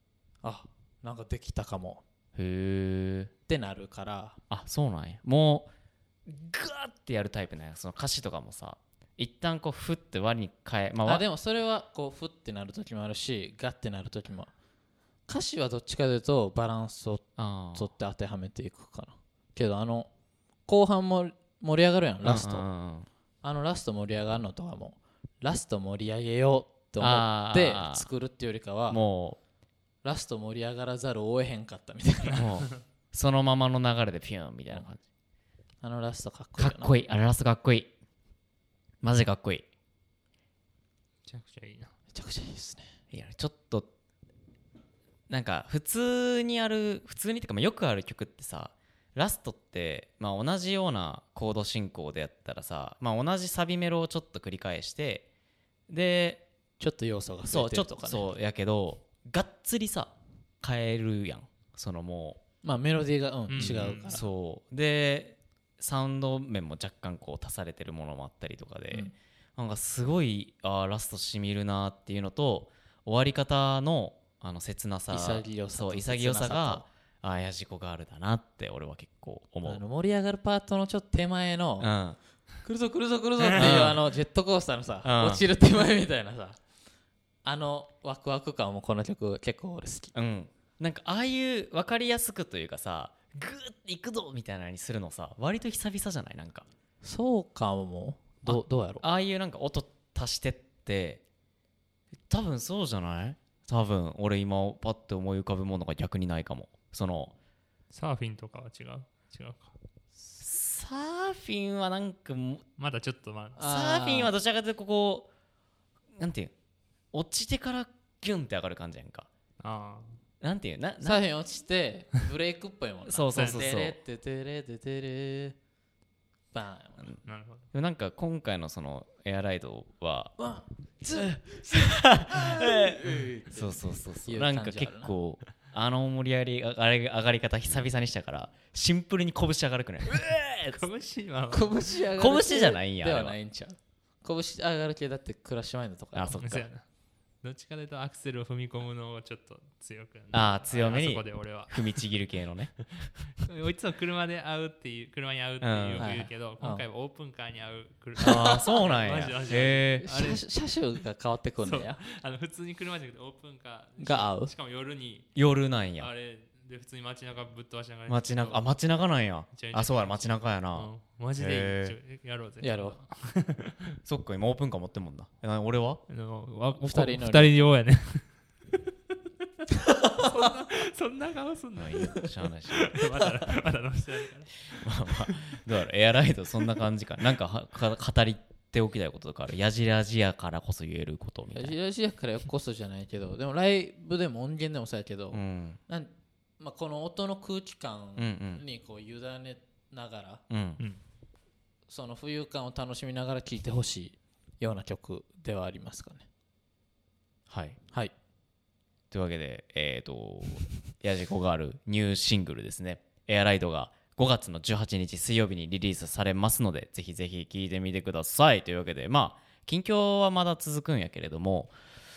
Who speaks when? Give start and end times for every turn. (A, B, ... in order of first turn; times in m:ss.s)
0:00.4-0:02.0 A
0:02.4-0:03.3 B
0:03.5-0:04.4 A
0:04.5-0:05.7 B
0:06.3-0:11.2 B
0:11.0-0:14.5 A
0:15.3-0:20.1 A
0:17.4-0:17.9 B
0:20.7-0:22.7 A
0:22.2-0:23.1 B
0:23.4-0:29.0 A
0:27.0-0:28.1 B
0:28.9-0:29.4 B
0:30.0-0:32.5 A
0:32.3-0:35.0 B
0:35.8-0:36.9 A
0:36.6-0:37.9 B
0:39.0-0:39.7 B
0:41.3-0:41.9 C
0:42.1-0:42.9 A
0:43.1-0:43.9 B
0:45.3-0:55.3 B
0:55.9-0:56.4 B
0:56.8-0:58.3 A
0:57.5-1:02.4 B
1:02.6-1:04.3 A
1:03.5-1:04.2 C
1:03.6-1:19.8 B
1:15.1-1:16.9 A
1:19.6-1:21.9 A
1:21.8-1:22.2 B
1:22.6-1:26.6 A
1:23.4-1:23.9 C
1:23.5-1:24.0 B
1:25.0-1:25.4 B
1:27.4-1:30.1 A
1:30.2-1:36.7 B
1:37.0-1:39.0 A
1:38.4-1:41.2 B
1:42.3-1:47.3 B
1:47.9-1:49.7 C
1:50.4-1:52.6 B
1:52.8-1:53.6 C
1:53.6-1:54.3 A
1:53.6-1:55.3 B
1:56.2-1:56.5 B
1:57.1-1:59.3 B
1:59.6-2:00.1 C
2:00.4-2:01.2 B
2:01.0-2:05.6 A
2:03.1-2:04.0 B
2:03.3-2:03.7 C
2:06.5-2:07.1 A
2:07.3-2:07.7 C
2:07.7-2:10.4 B
2:10.4-2:11.6 A
2:11.0-2:20.8 B
2:12.3-2:15.1 A
2:20.7-2:21.8 C
2:21.5-2:26.4 A
2:22.2-2:23.4 B
2:26.2-2:26.7 B
2:26.4-2:26.8 C
2:27.4-2:32.0 C
2:30.3-2:32.8 B
2:33.4-2:40.4 C
2:35.6-2:36.2 B
2:36.0-2:36.8 A
2:38.2-2:40.1 B
2:38.2-2:38.7 A
2:40.0-2:42.0 A
2:41.6-2:45.3 C
2:44.0-2:44.5 A
2:45.4-2:46.1 B
2:46.0-2:48.6 C
2:48.1-2:52.0 B
2:49.5-2:54.0 C
2:52.6-2:53.0 A
2:54.0-2:56.0 B
2:56.1-2:58.3 C
2:56.8-2:57.6 A
3:00.1-3:04.7 C
3:01.8-3:03.0 B
3:04.7-3:11.8 B
3:11.5-3:20.4 A
3:15.3-3:15.8 B
3:18.2-3:18.6 B
3:20.5-3:20.8 B
3:21.9-3:26.3 A
3:27.5-3:27.8 B
3:29.1-3:41.7 B